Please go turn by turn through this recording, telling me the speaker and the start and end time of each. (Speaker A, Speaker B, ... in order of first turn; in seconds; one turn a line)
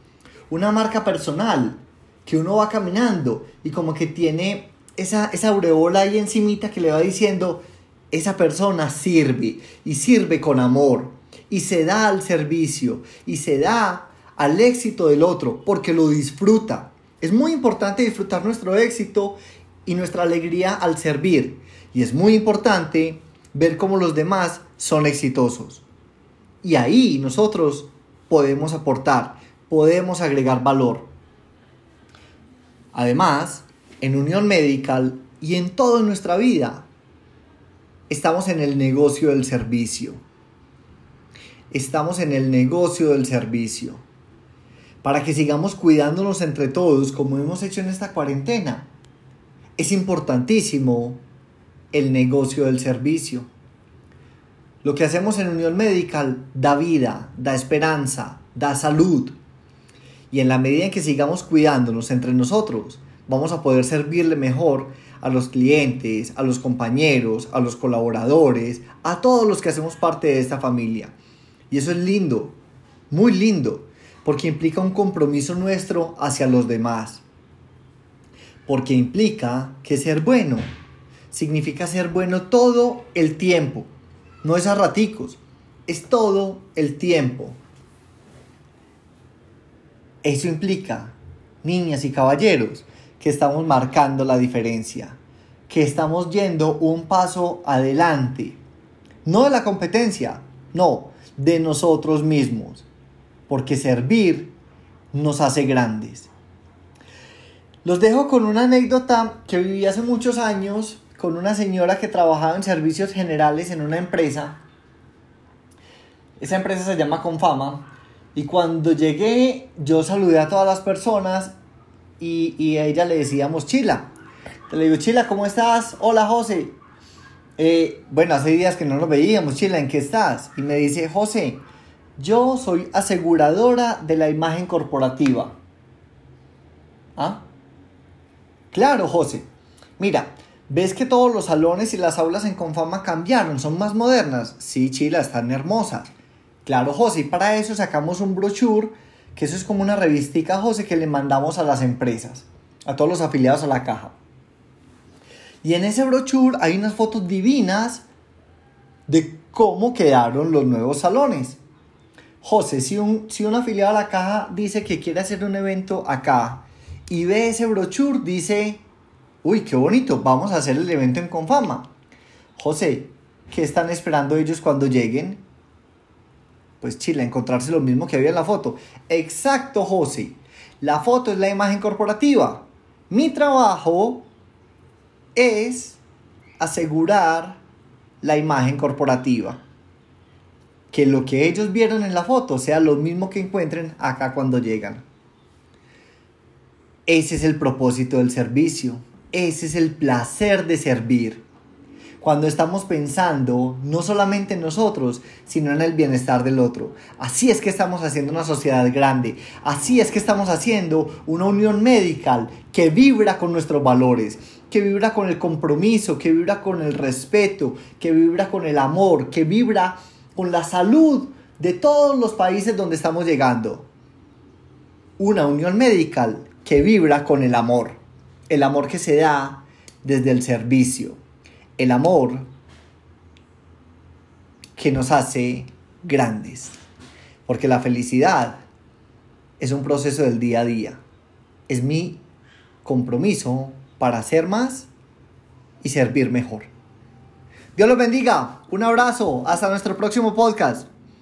Speaker A: 0.5-25.8
Speaker A: 26.6-31.1
Speaker A: 32.9-36.9
Speaker A: 38.1-40.2
Speaker A: 41.7-44.0
Speaker A: 45.0-48.9
Speaker A: 49.8-51.2
Speaker A: 51.9-53.5
Speaker A: 54.8-59.3
Speaker A: 60.3-71.1
Speaker A: 71.7-72.6
Speaker A: 73.1-77.2
Speaker A: 78.7-80.7
Speaker A: 81.3-83.9
Speaker A: 84.4-87.6
Speaker A: 90.2-98.6
Speaker A: 99.2-102.9
Speaker A: 103.5-104.5
Speaker A: 105.1-106.3
Speaker A: 107.8-114.6
Speaker A: 116.4-121.5
Speaker A: 122.2-124.1
Speaker A: 124.7-126.7
Speaker A: 127.6-131.6
Speaker A: 132.2-135.6
Speaker A: 137.2-137.4
Speaker A: 138.7-139.4
Speaker A: 140.0-146.1
Speaker A: 146.6-154.2
Speaker A: 155.6-158.1
Speaker A: 159.1-161.6
Speaker A: 162.4-168.8
Speaker A: 169.4-171.9
Speaker A: 172.6-175.4
Speaker A: 176.8-184.3
Speaker A: 185.4-186.0
Speaker A: 186.6-187.6
Speaker A: 188.2-189.6
Speaker A: 190.9-195.0
Speaker A: 197.1-201.4
Speaker A: 202.2-223.9
Speaker A: 225.2-231.2
Speaker A: 231.8-232.5
Speaker A: 234.8-236.8
Speaker A: 237.5-238.6
Speaker A: 239.6-241.0
Speaker A: 241.7-242.2
Speaker A: 242.8-244.9
Speaker A: 245.8-246.7
Speaker A: 247.8-250.9